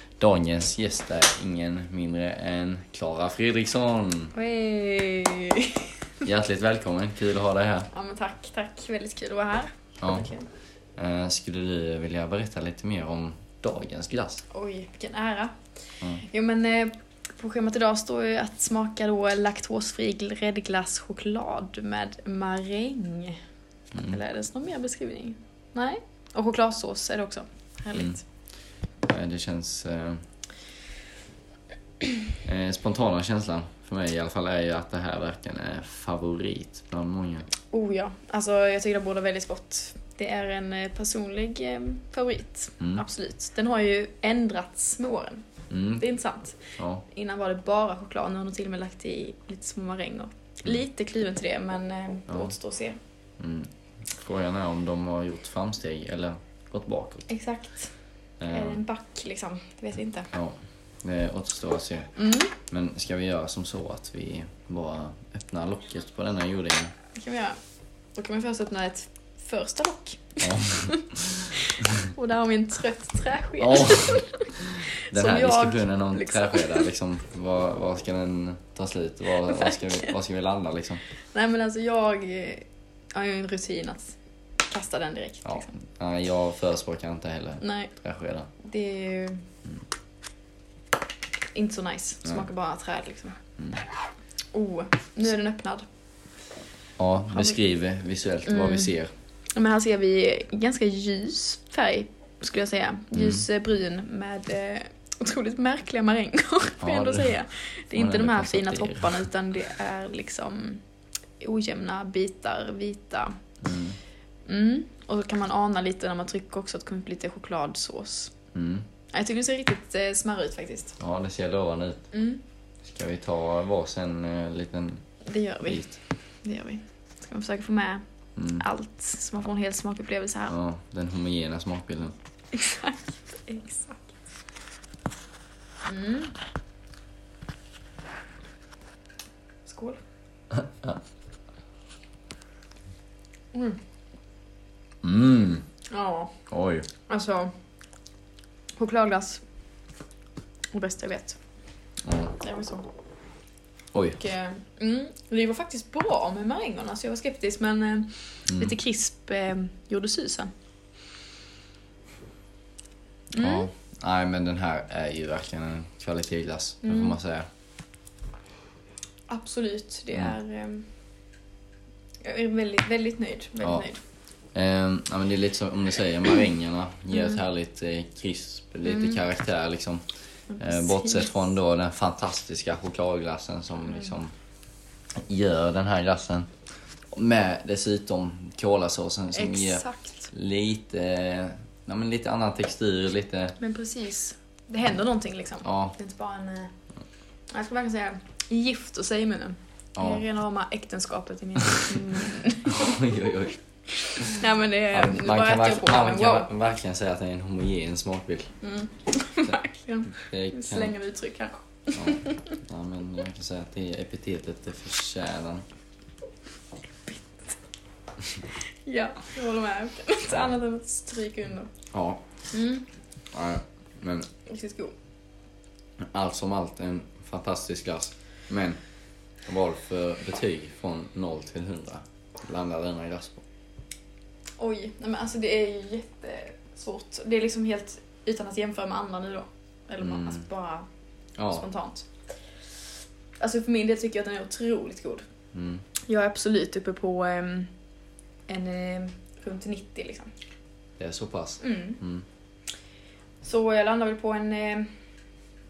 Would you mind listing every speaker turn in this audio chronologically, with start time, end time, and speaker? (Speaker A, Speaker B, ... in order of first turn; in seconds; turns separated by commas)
Speaker A: 0.2-4.3, Speaker B: 4.3-5.9, Speaker A: 6.2-7.9, Speaker B: 7.9-10.5, Speaker A: 10.0-10.3, Speaker A: 11.0-14.4, Speaker B: 14.5-15.6, Speaker B: 16.2-23.4, Speaker B: 24.0-28.2, Speaker A: 29.1-30.2, Speaker A: 32.5-37.5, Speaker B: 37.7-45.5, Speaker A: 45.7-46.0, Speaker B: 46.0-53.0, Speaker A: 46.8-47.0, Speaker A: 53.4-57.3, Speaker B: 57.3-57.9, Speaker A: 58.4-58.8, Speaker B: 58.5-60.3, Speaker A: 60.3-66.9, Speaker B: 62.2-62.5, Speaker B: 67.2-67.6, Speaker B: 68.2-76.9, Speaker A: 70.4-71.5, Speaker A: 73.6-74.2, Speaker A: 75.0-81.0, Speaker B: 79.5-80.1, Speaker B: 81.3-85.7, Speaker A: 85.5-88.5, Speaker B: 87.6-87.9, Speaker B: 88.6-89.4, Speaker B: 91.5-93.4, Speaker B: 94.5-95.8, Speaker A: 97.0-99.1, Speaker B: 98.5-98.9, Speaker B: 99.5-110.8, Speaker A: 103.1-103.5, Speaker A: 106.8-107.3, Speaker A: 107.9-109.2, Speaker B: 111.4-113.3, Speaker A: 113.6-114.0, Speaker B: 114.5-118.3, Speaker A: 118.5-118.9, Speaker B: 119.1-121.0, Speaker A: 121.0-122.1, Speaker B: 122.1-122.4, Speaker A: 122.8-125.0, Speaker B: 125.3-128.0, Speaker A: 125.7-125.9, Speaker A: 128.4-128.7, Speaker B: 128.6-130.6, Speaker A: 130.5-132.2, Speaker B: 132.5-134.1, Speaker B: 135.8-136.4, Speaker B: 139.7-140.0, Speaker A: 140.6-141.0, Speaker B: 143.5-143.8, Speaker A: 145.0-145.7, Speaker B: 145.9-146.3, Speaker A: 146.5-146.9, Speaker B: 147.1-147.5, Speaker B: 148.8-149.4, Speaker B: 150.7-151.4, Speaker A: 152.0-152.4, Speaker B: 152.4-152.9, Speaker A: 153.9-154.2, Speaker B: 154.2-160.5, Speaker B: 163.3-163.7, Speaker A: 163.3-167.5, Speaker B: 166.8-167.2, Speaker B: 169.3-170.9, Speaker B: 172.2-174.0, Speaker A: 174.6-180.0, Speaker B: 177.1-177.4, Speaker B: 178.9-179.2, Speaker B: 180.5-181.3, Speaker A: 180.6-184.3, Speaker A: 185.2-186.5, Speaker A: 187.1-193.6, Speaker B: 189.3-190.3, Speaker B: 193.6-196.7, Speaker A: 195.6-196.0, Speaker B: 197.5-203.0, Speaker A: 200.0-200.3, Speaker A: 202.7-203.6, Speaker B: 204.1-206.5, Speaker A: 204.9-208.5, Speaker B: 208.6-212.6, Speaker A: 210.1-210.9, Speaker A: 211.9-215.7, Speaker B: 217.1-217.5, Speaker B: 218.8-221.7, Speaker A: 221.9-222.2, Speaker B: 222.5-222.9, Speaker A: 223.3-224.3, Speaker B: 224.5-224.9, Speaker A: 226.0-228.8, Speaker A: 229.5-233.4, Speaker B: 234.6-240.9, Speaker A: 240.0-240.4, Speaker A: 241.4-241.7, Speaker B: 241.5-242.1, Speaker B: 243.4-245.2, Speaker A: 245.5-245.8, Speaker B: 246.1-247.7, Speaker B: 248.5-250.3, Speaker A: 251.0-252.2, Speaker B: 251.6-252.0, Speaker B: 253.4-254.9